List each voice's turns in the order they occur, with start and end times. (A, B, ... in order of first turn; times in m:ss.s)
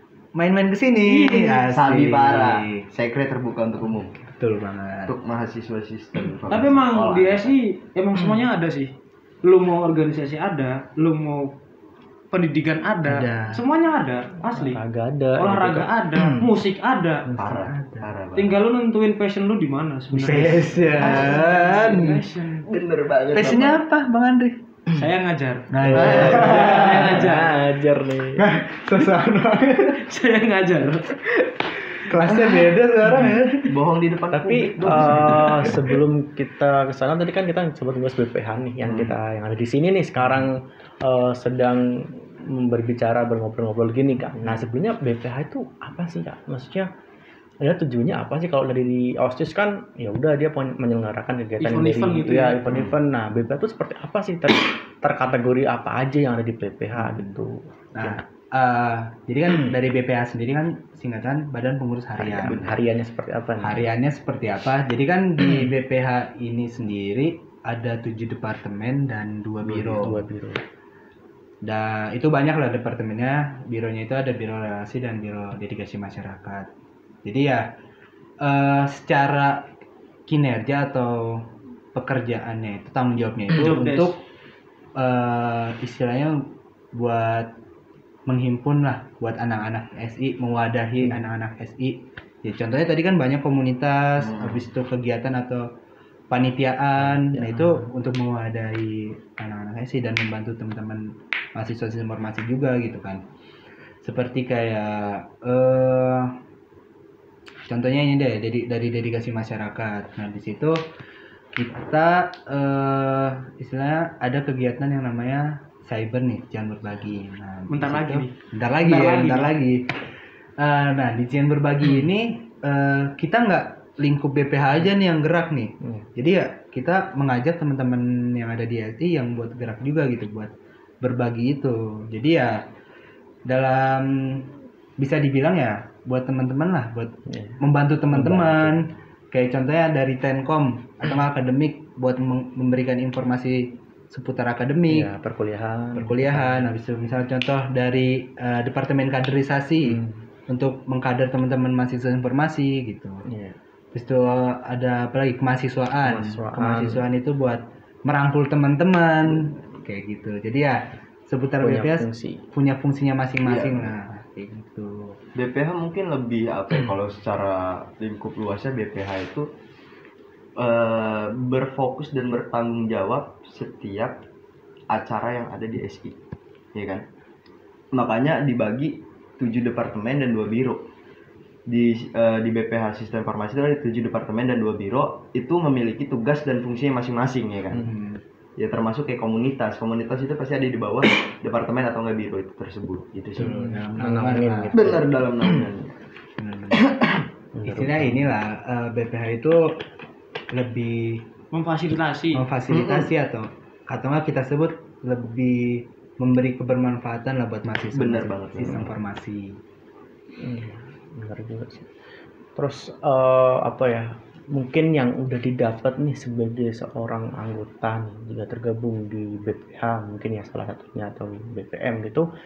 0:00.3-0:02.9 A
0:01.0-0:01.6 B
0:01.7-0:04.1 C
0:04.1-0:05.1 A
0:05.1-0:07.6 C
0:06.5-0:08.9 B
0:09.4-0:11.5 B
0:12.3-0:14.8 B
0:13.0-0:13.6 A
0:14.5-0:16.5 D
0:15.4-0:17.2 B
0:17.4-0:18.6 C
0:17.4-0:18.1 A
0:18.3-0:22.7 B
0:20.1-0:22.2 A
0:20.9-0:21.4 C
0:22.7-0:23.8 C
0:23.3-0:24.6 A
0:24.9-0:27.6 B
0:25.7-0:27.1 A
0:25.8-0:28.4 D
0:25.9-0:26.8 C
0:28.4-0:30.0 A
0:30.0-0:31.1 B
0:32.0-0:33.8 A
0:32.3-0:32.5 C
0:33.6-0:36.0 C
0:34.3-0:46.9 D
0:35.1-0:35.5 A
0:38.8-0:39.2 C
0:47.6-0:58.2 D
0:51.6-0:52.6 B
0:52.7-0:53.0 C
0:56.9-0:57.4 A
0:57.9-1:02.7 A
1:02.2-1:03.9 D
1:02.3-1:02.8 C
1:03.6-1:10.2 A
1:09.7-1:10.6 D
1:11.6-1:16.7 A
1:17.2-1:17.7 A
1:18.4-1:19.7 A
1:20.3-1:24.2 A
1:23.6-1:24.1 B
1:25.0-1:27.5 A
1:28.3-1:35.6 A
1:34.2-1:34.6 C
1:36.3-1:43.2 A
1:37.0-1:37.9 D
1:44.0-1:46.3 A
1:47.7-1:50.8 A
1:51.5-2:00.0 A
1:57.7-1:58.3 B
1:58.8-1:59.5 B
2:00.6-2:12.6 A
2:13.4-2:25.1 A
2:17.3-2:17.6 D
2:18.1-2:18.8 D
2:24.9-2:26.6 D
2:25.9-2:33.2 A
2:29.8-2:30.2 D
2:33.3-2:33.6 D
2:33.9-2:45.2 A
2:36.0-2:37.1 D
2:39.3-2:39.6 C
2:41.6-2:42.4 D
2:43.4-2:43.9 C
2:45.3-2:49.5 C
2:50.6-2:54.2 C
2:54.9-2:56.2 C
2:56.7-2:57.0 C
2:57.9-3:00.8 C
3:01.7-3:07.9 C
3:07.8-3:08.2 A
3:08.6-3:13.6 C
3:13.4-3:14.9 A
3:13.4-3:15.7 D
3:14.7-3:15.9 C
3:16.4-3:16.9 A
3:16.7-3:17.2 C
3:17.5-3:18.3 D
3:17.6-3:19.8 A
3:20.5-3:21.2 A
3:21.5-3:22.4 B
3:22.3-3:29.6 A
3:22.7-3:23.1 C
3:27.9-3:28.8 C
3:30.4-3:31.9 D
3:32.6-3:42.3 D